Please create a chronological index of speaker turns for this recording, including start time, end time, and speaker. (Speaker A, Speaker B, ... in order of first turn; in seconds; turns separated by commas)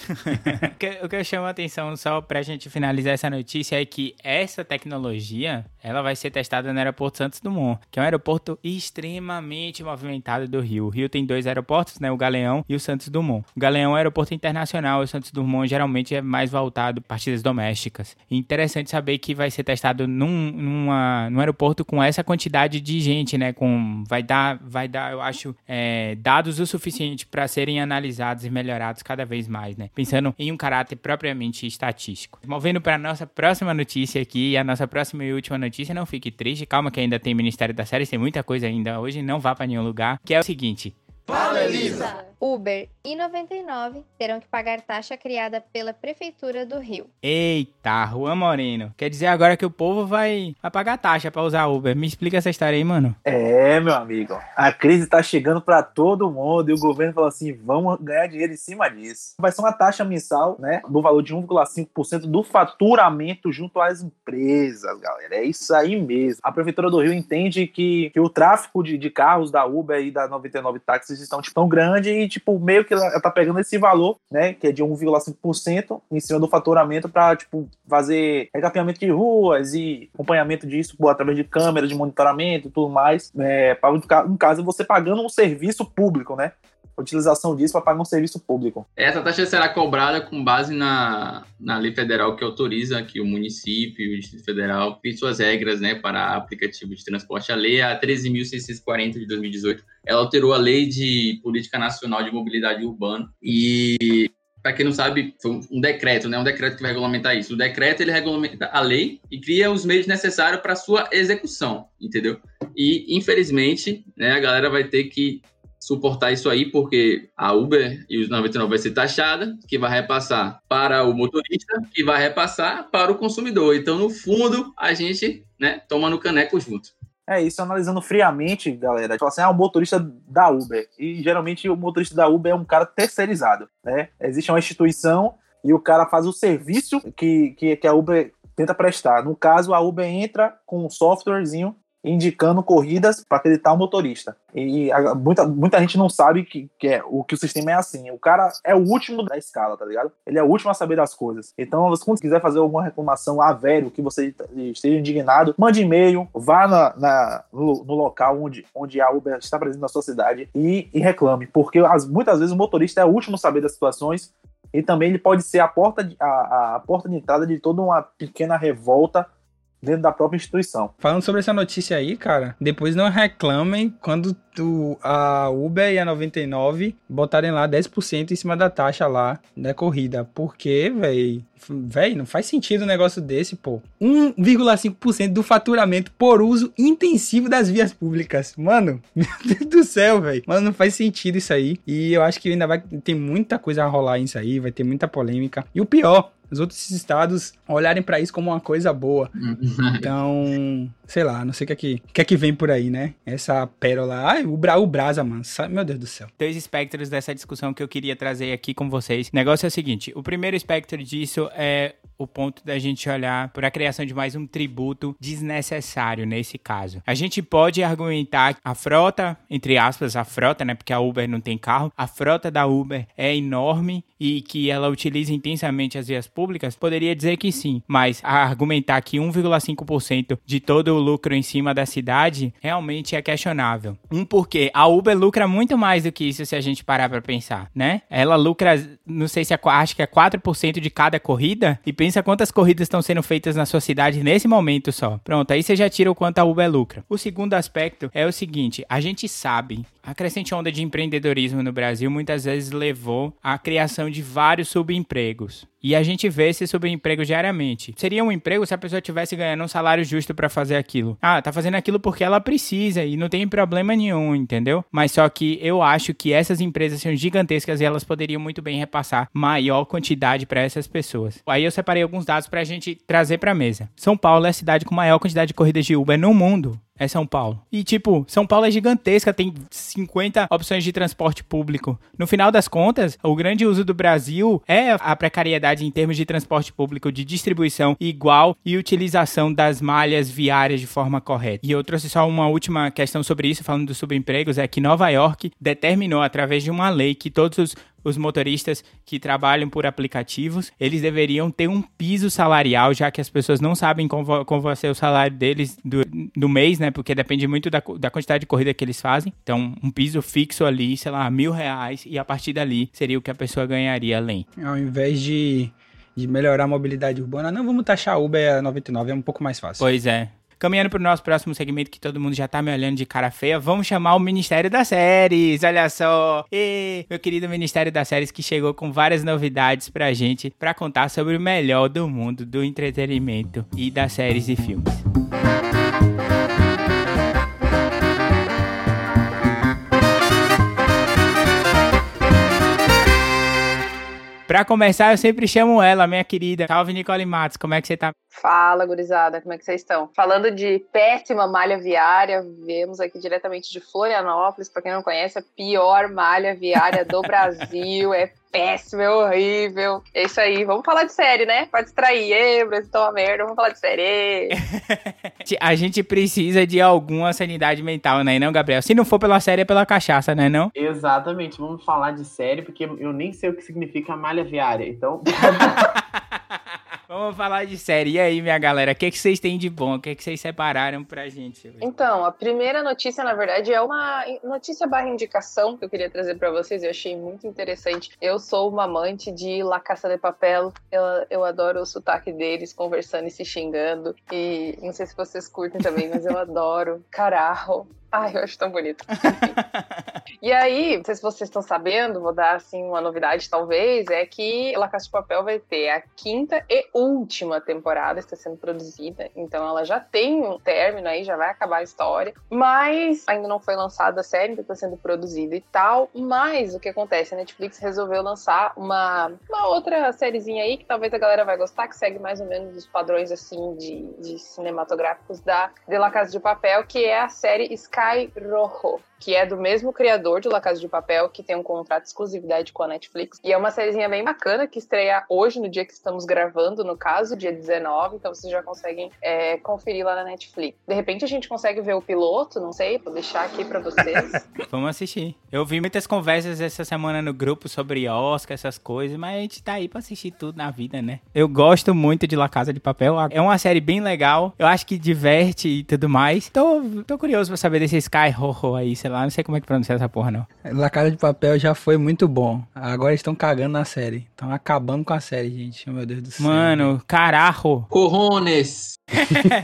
Speaker A: 0.2-41.0, Speaker B: 41.3-47.1, Speaker A: 47.2-53.1, Speaker C: 53.2-88.8, Speaker D: 89.0-126.9, Speaker C: 127.3-169.3, Speaker C: 169.8-170.9, Speaker E: 171.0-199.3, Speaker D: 199.3-200.1, Speaker E: 200.0-206.3, Speaker A: 206.4-314.4, Speaker E: 314.6-319.8, Speaker A: 319.8-335.0, Speaker A: 344.5-348.1, Speaker F: 348.3-364.6, Speaker A: 364.5-370.7, Speaker G: 370.7-375.9, Speaker A: 375.9-376.4, Speaker A: 377.1-381.9, Speaker F: 381.8-399.6, Speaker A: 399.3-400.0, Speaker F: 400.4-444.4, Speaker A: 444.7-460.5, Speaker E: 460.6-466.9, Speaker A: 466.4-467.9, Speaker D: 467.9-469.0